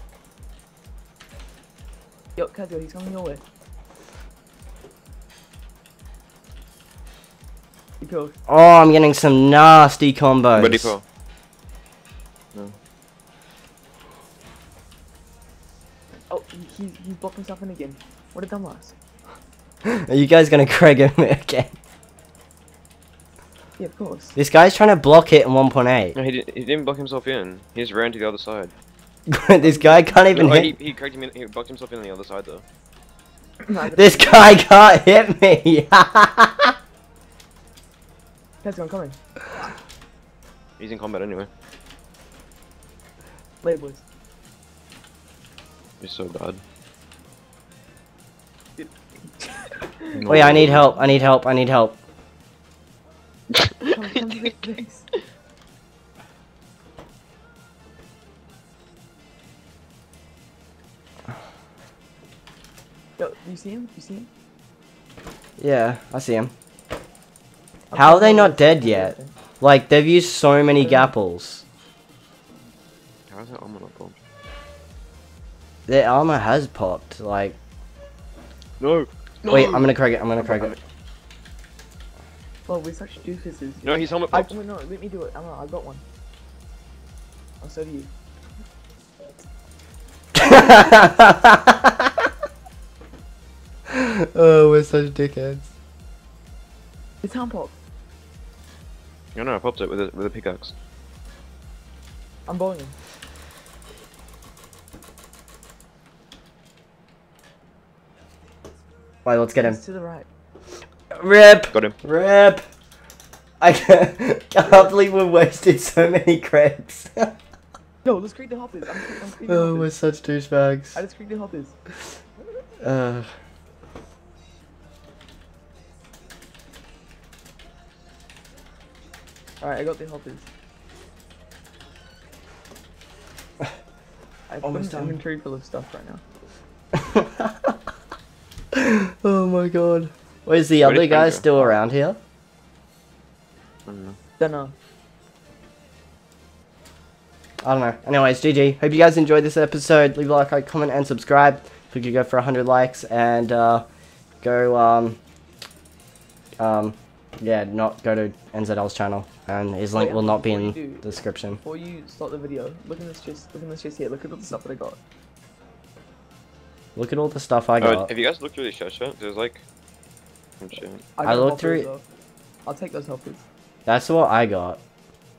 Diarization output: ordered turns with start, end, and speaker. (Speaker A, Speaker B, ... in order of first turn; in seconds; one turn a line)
Speaker A: 2.4-3.4
Speaker A: 8.0-8.3
Speaker B: 8.5-10.9
Speaker C: 10.6-11.0
Speaker A: 16.3-19.0
Speaker B: 19.8-21.7
Speaker A: 23.8-24.4
Speaker B: 24.4-26.1
Speaker C: 26.1-28.7
Speaker B: 29.3-30.7
Speaker A: 29.6-30.3
Speaker C: 30.3-32.6
Speaker A: 33.6-34.5
Speaker B: 34.0-36.8
Speaker A: 38.6-39.7
Speaker C: 40.8-41.5
Speaker A: 43.6-44.0
Speaker C: 46.0-46.6
Speaker A: 48.8-51.2
Speaker C: 50.1-50.9
Speaker B: 50.3-52.0
Speaker C: 53.5-53.9
Speaker A: 53.9-55.1
Speaker A: 63.2-64.3
Speaker B: 65.6-66.5
Speaker A: 67.9-69.3
Speaker B: 67.9-71.6
Speaker A: 70.8-71.1
Speaker C: 73.3-74.2
Speaker B: 75.9-77.6
Speaker C: 78.8-80.8
Speaker B: 79.5-80.8
Speaker A: 82.7-86.0
Speaker C: 83.8-84.5
Speaker A: 87.6-88.1
Speaker B: 90.3-92.3
Speaker B: 93.9-95.7
Speaker A: 97.2-97.8
Speaker C: 99.3-100.7
Speaker A: 102.5-103.0
Speaker B: 109.2-109.8
Speaker A: 109.6-110.3
Speaker B: 111.1-112.6
Speaker B: 113.6-117.4
Speaker A: 118.0-119.9
Speaker B: 119.5-121.0
Speaker A: 121.0-121.8
Speaker B: 122.8-123.3
Speaker A: 129.6-130.5
Speaker A: 134.5-136.2
Speaker B: 134.6-135.2
Speaker B: 136.9-137.8
Speaker B: 138.7-142.2
Speaker C: 140.8-141.5
Speaker C: 143.9-144.2
Speaker A: 144.4-144.8
Speaker B: 147.6-153.9
Speaker B: 154.4-155.2
Speaker B: 156.6-161.6
Speaker A: 159.9-165.0
Speaker B: 167.0-168.1
Speaker C: 167.8-169.6
Speaker C: 170.6-171.0
Speaker A: 171.2-172.0
Speaker B: 171.2-171.9
Speaker A: 172.7-173.4
Speaker B: 173.9-174.8